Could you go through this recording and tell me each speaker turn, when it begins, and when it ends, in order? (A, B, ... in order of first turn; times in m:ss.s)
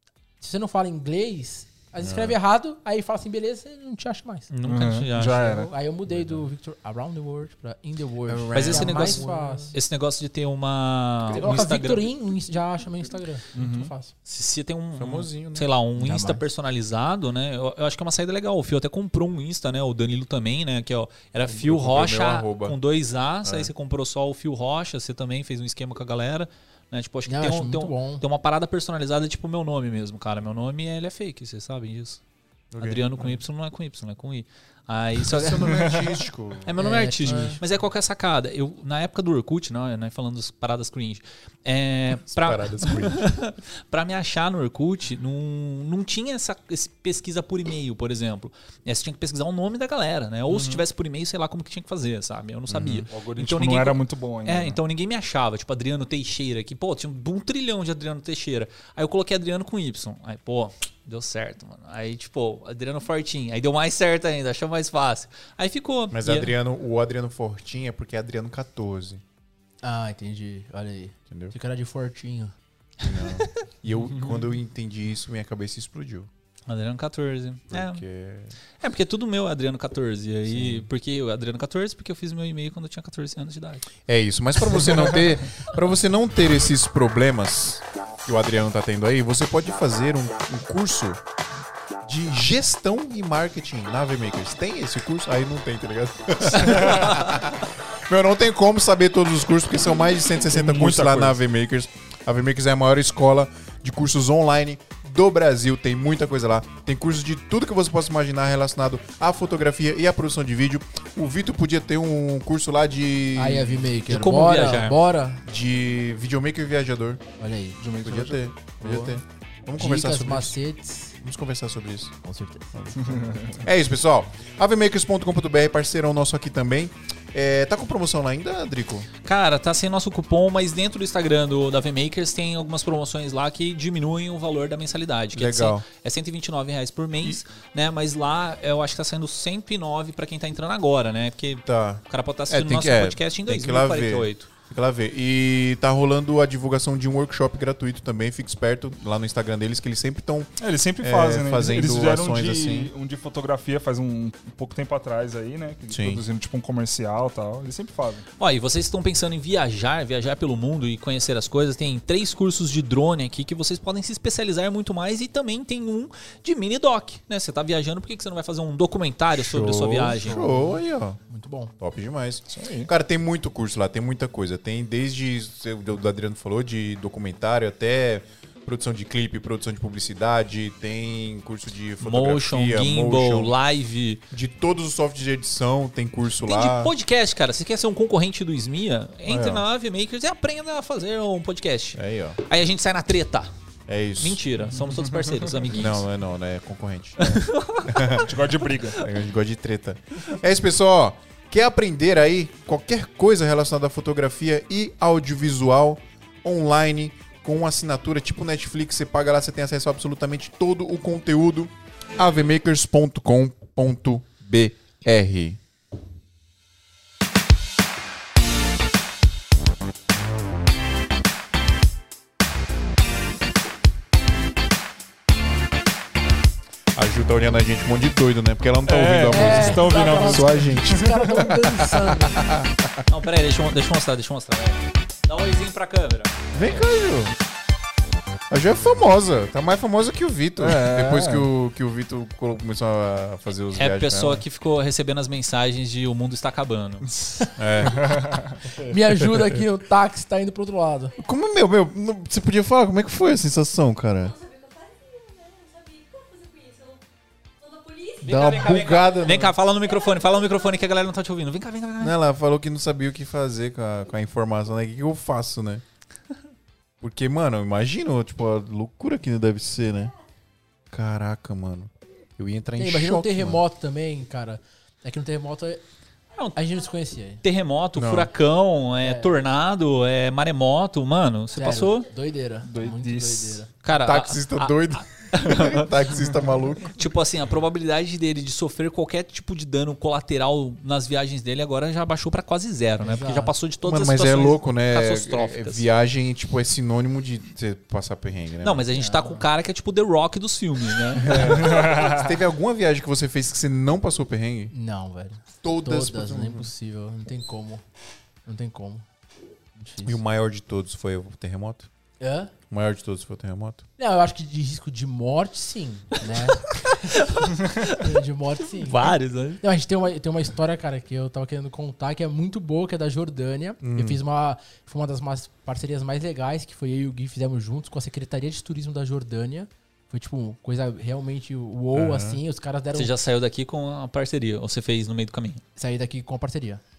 0:00.4-0:04.5 A
0:02.0-0:02.4 B
0:04.5-0:05.5 C
0:04.6-0:05.7 D
0:05.4-0:09.8 A
0:08.3-0:09.4 D
0:08.5-0:12.1 C
0:11.3-0:14.1 A
0:13.5-0:13.9 D
0:14.2-0:32.2 C
0:15.0-0:15.7 B
0:16.0-0:16.4 A
0:21.4-0:22.8 B
0:23.4-0:23.7 B
0:27.3-0:28.2 A
0:32.7-0:33.4 B
0:32.8-0:36.0 C
0:35.2-0:37.6 B
0:35.6-0:36.0 D
0:36.6-1:06.5 C
0:36.8-0:37.6 A
0:42.3-0:43.3 B
0:50.5-0:50.8 D
0:52.7-0:53.1 B
0:53.1-0:54.8 D
1:06.1-1:09.2 B
1:09.8-1:12.5 A
1:11.3-1:11.5 B
1:13.0-1:16.3 B
1:16.7-1:18.0 C
1:17.7-1:18.6 B
1:18.8-1:23.9 C
1:20.5-1:20.9 B
1:24.1-1:31.2 B
1:32.0-1:53.9 B
1:36.9-1:37.3 C
1:40.5-1:41.4 D
1:53.3-1:55.4 A
1:54.1-1:55.0 C
1:55.4-1:57.2 B
1:57.4-1:57.8 A
1:57.8-1:58.4 D
1:58.0-2:00.6 B
1:58.8-1:59.2 A
1:59.8-2:01.2 A
2:01.2-2:02.1 B
2:02.2-2:02.9 A
2:02.7-2:09.1 B
2:03.0-2:03.6 D
2:09.2-2:24.5 C
2:15.3-2:15.8 B
2:21.6-2:32.9 B
2:30.6-2:38.2 D
2:35.9-2:36.2 B
2:38.4-2:50.4 C
2:49.4-2:51.2 B
2:50.3-2:51.7 A
2:51.8-3:03.6 B
2:52.5-2:52.9 D
3:02.0-3:04.2 C
3:04.3-3:06.9 B
3:06.4-3:13.5 C
3:09.2-3:09.6 B
3:11.9-3:12.4 B
3:13.9-3:14.4 B
3:14.2-3:16.0 C
3:14.6-3:15.6 D
3:15.7-3:18.4 B
3:17.2-3:18.3 C
3:18.2-3:19.0 D
3:18.9-3:35.6 B
3:46.9-3:53.0 B
3:48.8-3:51.5 D
3:49.3-3:52.4 A
3:53.1-3:56.3 C
3:56.5-3:57.3 B
3:58.5-4:04.4 B
4:00.6-4:01.5 D
4:03.7-4:07.1 C
4:07.4-4:08.1 A
4:07.6-4:08.1 B
4:07.9-4:08.6 D
4:08.7-4:09.6 B
4:08.8-4:11.1 A
4:11.2-4:14.3 B
4:14.2-4:17.0 E
4:17.6-4:19.1 E
4:18.2-4:19.6 B
4:18.2-4:22.2 C
4:19.8-4:20.9 E
4:22.0-4:25.8 B
4:27.0-4:30.1 B
4:30.9-4:33.6 B
4:32.8-4:35.8 A
4:36.4-4:37.0 E
4:36.5-4:37.4 A
4:37.4-4:42.0 C
4:37.9-4:38.3 B
4:39.0-4:39.4 A
4:41.5-4:43.7 A
4:42.6-4:43.6 D
4:43.8-4:46.0 C
4:43.9-4:47.0 B
4:46.8-4:55.9 C
4:53.0-4:53.5 A
4:53.8-4:58.8 B
4:58.6-5:01.6 C
4:58.9-4:59.5 A
5:01.2-5:04.7 B
5:01.5-5:02.3 D
5:04.7-5:07.8 A
5:05.6-5:06.7 B
5:08.4-5:09.0 A
5:09.8-5:10.2 A
5:10.0-5:11.9 B
5:12.2-5:12.5 A
5:12.7-5:13.8 B
5:14.0-5:17.3 A
5:16.7-5:18.1 C
5:17.8-5:33.1 A
5:18.7-5:19.6 C
5:23.8-5:24.2 B
5:31.9-5:32.4 B
5:32.9-5:35.6 C
5:35.8-5:36.8 A